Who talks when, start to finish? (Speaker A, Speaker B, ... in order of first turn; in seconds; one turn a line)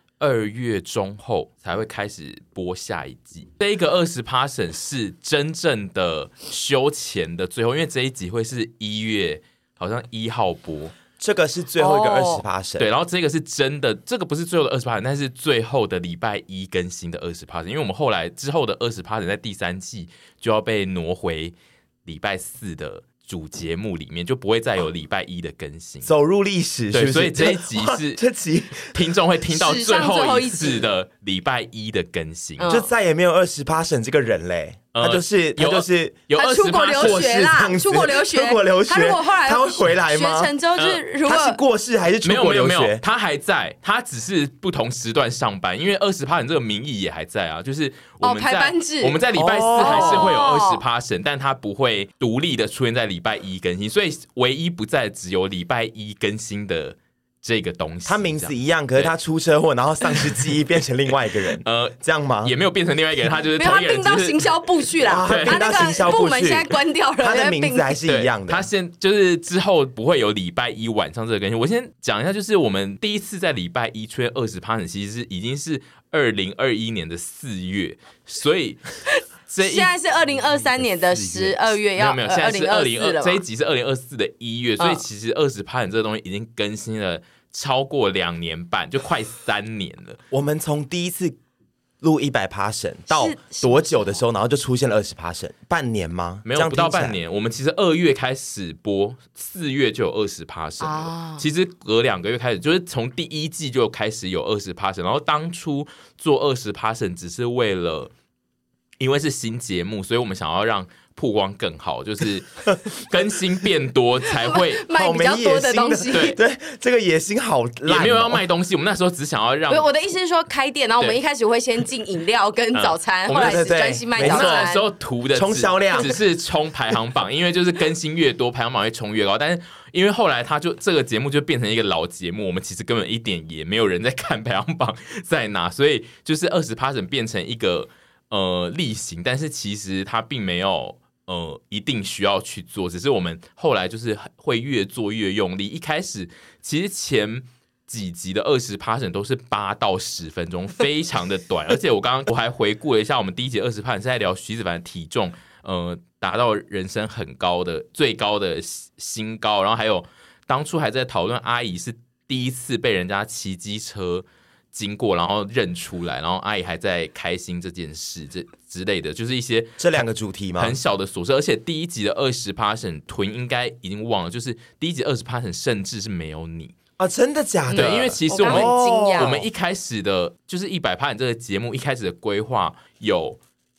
Speaker A: 0.2-10.9
Speaker B: 11.2-12.9
Speaker C: 11.8-12.4
Speaker A: 12.8-21.6
Speaker A: 22.1-26.1
Speaker B: 26.0-28.9
Speaker A: 26.9-28.2
Speaker A: 28.8-32.7
Speaker C: 29.5-30.9
Speaker C: 32.6-32.9
Speaker B: 32.7-36.3
Speaker A: 34.9-37.2
Speaker C: 36.3-41.6
Speaker B: 36.9-40.5
Speaker A: 40.8-41.0
Speaker B: 41.2-43.0
Speaker A: 42.2-59.1
Speaker C: 48.2-49.2
Speaker B: 49.3-50.4
Speaker C: 49.8-50.8
Speaker B: 58.0-62.5
Speaker A: 61.6-65.7
Speaker C: 63.5-68.0
Speaker B: 65.0-68.7
Speaker A: 68.0-78.8
Speaker C: 79.1-83.4
Speaker A: 79.5-79.9
Speaker B: 80.8-81.6
Speaker A: 82.0-90.2
Speaker C: 84.8-85.0
Speaker B: 90.3-91.4
Speaker B: 92.0-97.2
Speaker C: 93.1-94.2
Speaker A: 96.5-108.1
Speaker C: 100.8-101.4
Speaker A: 109.0-114.8
Speaker C: 114.3-116.4
Speaker B: 114.9-118.4
Speaker A: 116.1-116.4
Speaker A: 117.9-119.9
Speaker C: 119.7-124.8
Speaker A: 122.7-169.8
Speaker B: 123.3-124.7
Speaker B: 125.3-126.2
Speaker B: 169.8-170.8
Speaker A: 170.6-176.7
Speaker B: 177.0-179.4
Speaker C: 177.7-179.4
Speaker A: 177.7-183.4